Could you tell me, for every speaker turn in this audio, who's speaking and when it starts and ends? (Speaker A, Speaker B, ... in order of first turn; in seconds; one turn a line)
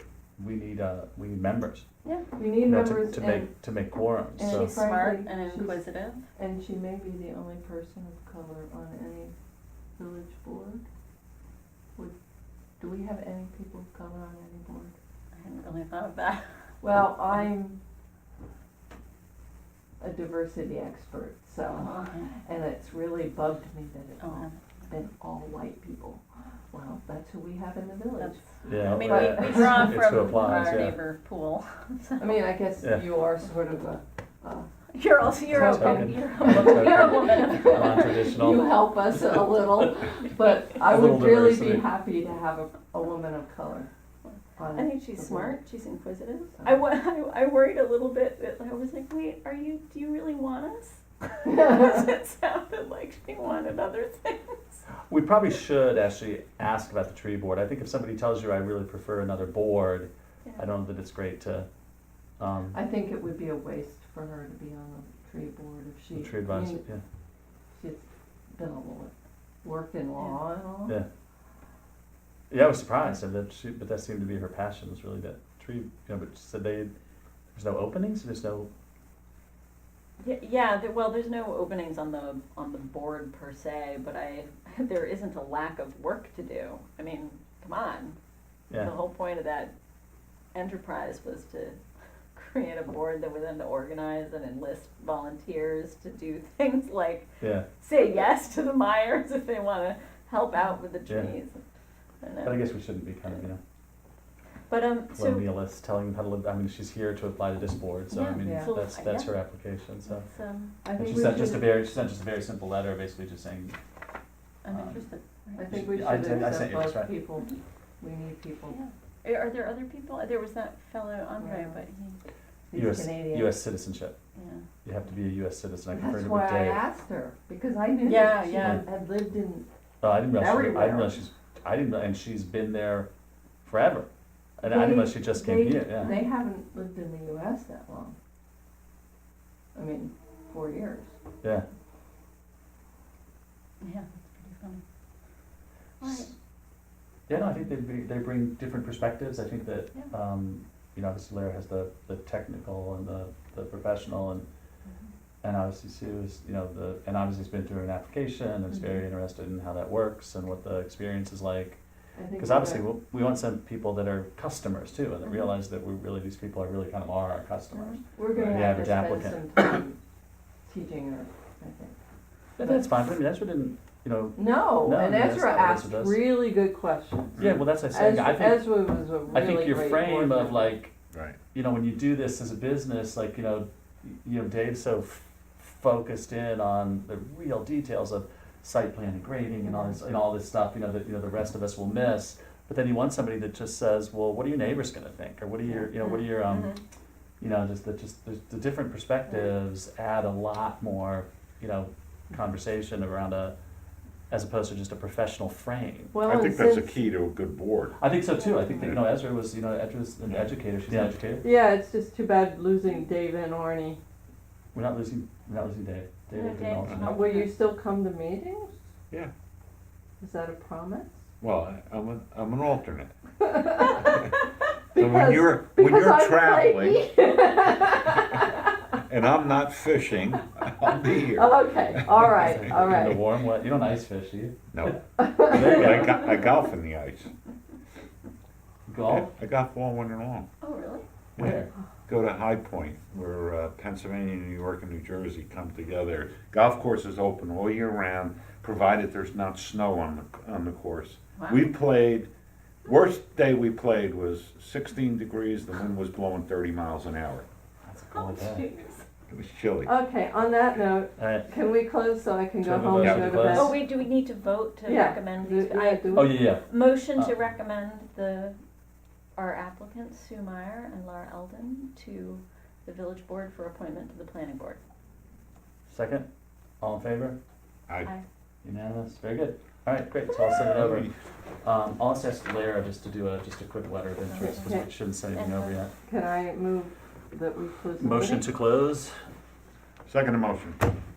Speaker A: 0.4-1.9
Speaker B: 2.4-3.5
Speaker A: 2.6-4.8
Speaker B: 4.4-5.8
Speaker C: 4.5-6.2
Speaker B: 6.4-9.3
Speaker B: 10.0-10.8
Speaker B: 12.8-14.9
Speaker C: 15.3-16.4
Speaker B: 16.8-17.8
Speaker B: 20.0-30.0
Speaker C: 21.7-22.4
Speaker C: 24.2-24.6
Speaker C: 28.2-32.5
Speaker A: 28.7-31.0
Speaker B: 32.2-34.7
Speaker C: 34.9-38.3
Speaker B: 35.4-43.9
Speaker A: 35.5-38.8
Speaker A: 40.7-41.9
Speaker C: 44.2-54.8
Speaker B: 44.6-45.6
Speaker A: 55.1-61.7
Speaker A: 62.4-62.8
Speaker B: 62.7-66.8
Speaker A: 66.1-67.0
Speaker B: 67.8-69.1
Speaker B: 69.6-71.0
Speaker A: 72.5-76.9
Speaker A: 77.5-78.7
Speaker C: 80.2-88.2
Speaker C: 88.7-89.7
Speaker C: 90.5-91.8
Speaker C: 92.3-97.3
Speaker A: 97.4-97.7
Speaker C: 97.8-101.6
Speaker A: 101.1-101.4
Speaker C: 102.2-102.6
Speaker A: 102.4-103.6
Speaker C: 104.7-105.5
Speaker A: 105.1-110.3
Speaker C: 108.1-109.3
Speaker B: 108.4-108.7
Speaker C: 110.1-110.8
Speaker B: 110.8-111.8
Speaker A: 111.0-113.8
Speaker C: 114.6-115.7
Speaker A: 114.7-115.0
Speaker B: 115.6-118.8
Speaker A: 115.7-117.1
Speaker C: 118.7-122.2
Speaker B: 121.4-121.8
Speaker B: 122.7-123.6
Speaker A: 122.7-124.2
Speaker C: 124.4-124.7
Speaker A: 124.8-126.8
Speaker B: 125.9-129.7
Speaker C: 128.0-128.8
Speaker A: 130.0-133.1
Speaker B: 130.3-131.2
Speaker A: 133.6-134.1
Speaker A: 134.6-136.1
Speaker B: 134.6-138.2
Speaker C: 135.5-136.3
Speaker B: 139.8-141.1
Speaker C: 143.8-144.8
Speaker C: 146.0-146.3
Speaker A: 146.1-146.3
Speaker A: 147.3-154.5
Speaker A: 155.4-161.8
Speaker C: 158.7-159.0
Speaker B: 162.2-162.9
Speaker A: 162.4-169.4
Speaker C: 167.7-168.0
Speaker B: 168.2-170.0
Speaker B: 170.7-171.9
Speaker A: 172.6-176.4
Speaker B: 174.4-180.8
Speaker D: 177.4-177.6
Speaker A: 177.4-180.9
Speaker D: 181.1-181.4
Speaker A: 181.5-196.7
Speaker B: 189.6-190.0
Speaker C: 196.0-196.8
Speaker A: 197.4-203.6
Speaker A: 204.3-206.2
Speaker B: 206.1-207.0
Speaker D: 206.2-208.0
Speaker A: 208.0-211.4
Speaker C: 208.4-208.7
Speaker D: 208.8-209.1
Speaker D: 210.3-211.0
Speaker B: 211.4-214.0
Speaker A: 214.7-217.1
Speaker C: 216.3-217.6
Speaker B: 217.0-218.8
Speaker B: 220.2-221.2
Speaker D: 221.4-223.1
Speaker B: 223.5-224.2
Speaker B: 224.9-228.7
Speaker D: 224.9-227.0
Speaker D: 229.1-231.8
Speaker B: 231.2-233.2
Speaker A: 232.4-234.6
Speaker D: 232.4-233.1
Speaker D: 234.7-237.3
Speaker B: 235.2-235.9
Speaker A: 235.5-236.2
Speaker A: 238.9-239.3
Speaker D: 239.1-240.5
Speaker C: 240.6-241.1
Speaker D: 241.4-252.3
Speaker A: 241.4-241.7
Speaker C: 251.4-251.7
Speaker D: 252.8-257.5
Speaker A: 257.9-258.7
Speaker C: 258.1-259.1
Speaker D: 259.3-259.9
Speaker B: 259.9-263.8
Speaker A: 261.2-261.5
Speaker A: 262.6-263.8
Speaker D: 263.0-263.5
Speaker C: 263.5-268.6
Speaker B: 264.9-266.6
Speaker A: 266.1-267.3
Speaker C: 269.4-274.8
Speaker A: 275.9-276.3
Speaker A: 276.8-277.4
Speaker A: 278.6-281.1
Speaker D: 280.8-281.1
Speaker A: 281.6-285.9
Speaker C: 284.3-284.8
Speaker B: 284.4-284.9
Speaker C: 285.3-285.8
Speaker B: 286.0-288.5
Speaker A: 288.0-289.1
Speaker D: 290.1-290.8